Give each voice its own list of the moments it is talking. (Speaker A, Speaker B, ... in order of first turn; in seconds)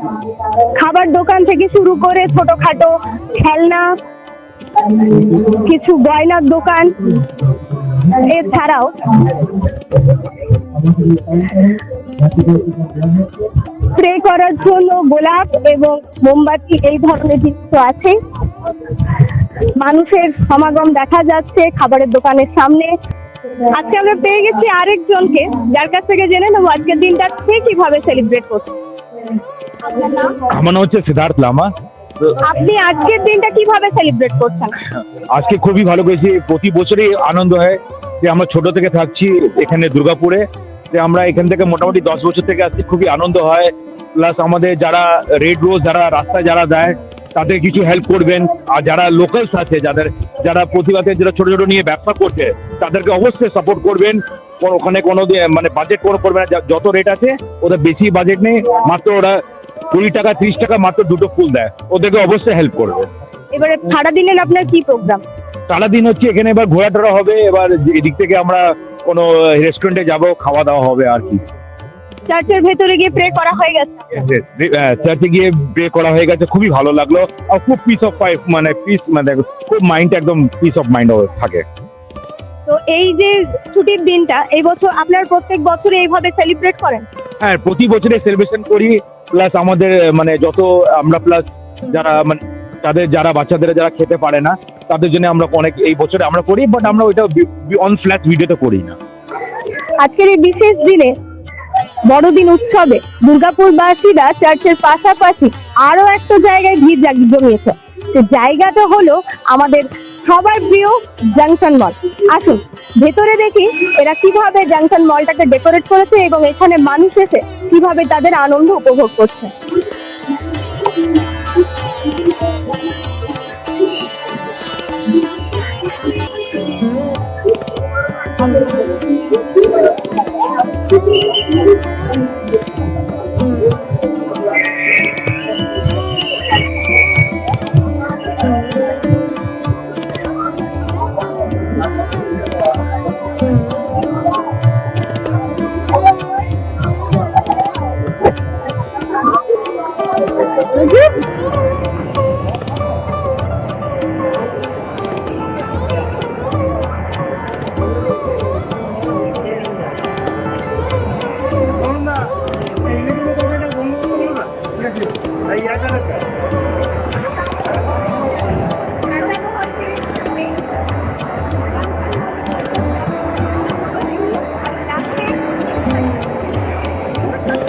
Speaker A: 0.8-3.9, 5.0-7.3, 8.0-9.4, 13.9-18.2, 19.8-22.9, 23.6-28.7, 29.9-30.3, 32.4-34.8, 63.5-65.2, 72.3-74.0, 82.7-87.1, 100.0-101.1, 102.0-119.5, 150.7-151.1, 169.1-170.6, 171.7-176.3
Speaker B: 30.5-31.7, 35.3-59.4, 59.9-63.1, 65.7-71.4, 74.1-81.6, 87.4-99.0